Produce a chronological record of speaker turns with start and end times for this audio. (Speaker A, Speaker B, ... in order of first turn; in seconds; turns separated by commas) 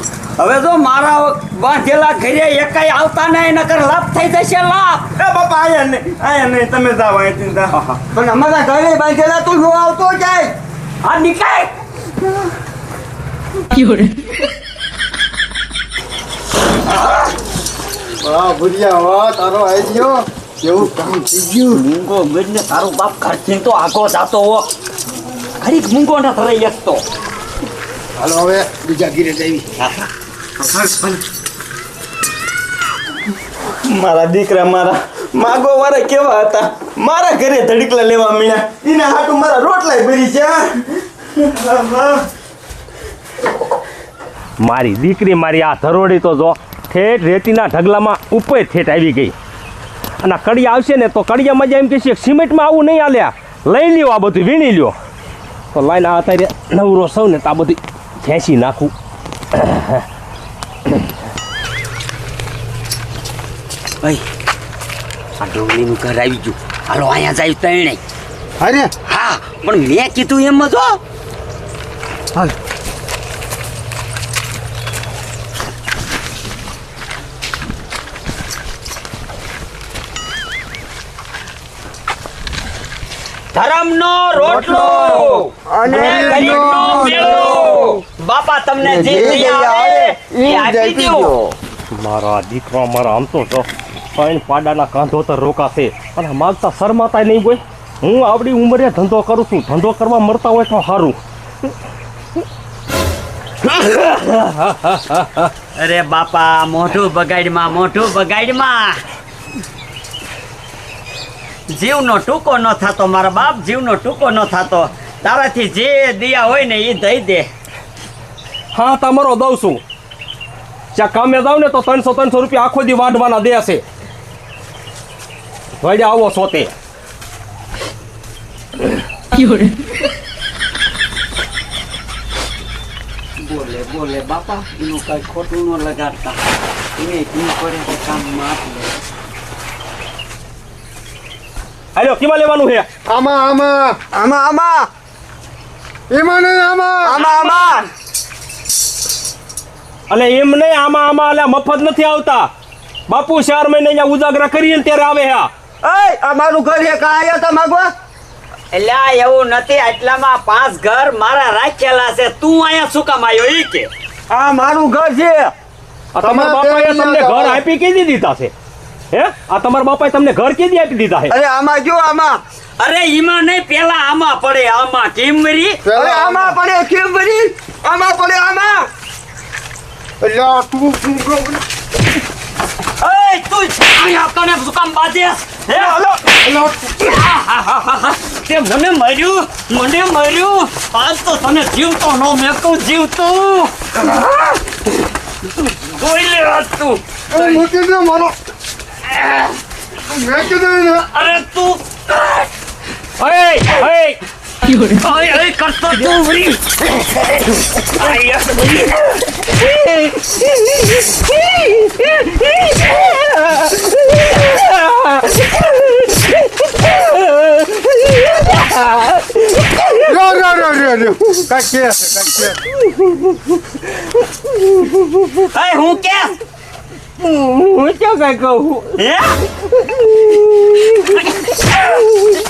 Speaker A: 0.4-5.1, Speaker B: 5.2-7.7, Speaker A: 7.7-8.0, Speaker C: 8.1-10.6, Speaker A: 11.0-11.7, Speaker D: 18.2-21.8, Speaker A: 21.7-24.7, Speaker A: 25.6-27.0, Speaker D: 28.2-29.6, Speaker A: 29.8-30.1, Speaker B: 33.8-42.2, Speaker E: 44.6-49.3, Speaker E: 50.2-54.9, Speaker E: 55.7-58.9, Speaker E: 59.5-60.0, Speaker A: 65.4-68.0, Speaker D: 68.6-68.9, Speaker A: 69.0-71.0, Speaker A: 83.5-91.3, Speaker C: 84.5-88.0, Speaker D: 85.8-87.3, Speaker C: 88.8-91.5, Speaker E: 91.9-101.2, Speaker E: 103.7-105.5, Speaker A: 105.7-109.0, Speaker A: 111.7-117.5, Speaker E: 118.7-119.8, Speaker E: 120.9-123.8, Speaker E: 125.8-126.7, Speaker A: 133.4-136.4, Speaker A: 136.9-139.0, Speaker E: 141.9-142.8, Speaker D: 143.1-144.0, Speaker C: 144.1-144.9, Speaker D: 146.1-147.2, Speaker C: 147.1-147.8, Speaker A: 147.1-147.8, Speaker E: 150.1-152.5, Speaker E: 153.1-155.5, Speaker C: 155.8-157.9, Speaker A: 158.7-163.9, Speaker C: 164.3-165.5, Speaker E: 166.1-168.5, Speaker D: 166.2-167.6, Speaker E: 169.1-171.3, Speaker C: 171.3-172.4, Speaker A: 172.8-175.8, Speaker D: 175.8-176.6, Speaker C: 175.9-178.9, Speaker D: 180.2-181.6, Speaker A: 183.0-186.0, Speaker D: 186.4-186.8, Speaker A: 186.9-193.7, Speaker A: 195.6-197.6, Speaker D: 197.3-198.3, Speaker D: 200.1-201.1, Speaker A: 201.1-202.5, Speaker E: 203.2-204.2, Speaker A: 204.6-206.6, Speaker A: 207.9-208.8, Speaker E: 217.1-217.5, Speaker D: 220.0-222.6, Speaker A: 225.3-226.4, Speaker E: 227.2-228.9, Speaker A: 228.9-229.4, Speaker A: 231.0-231.7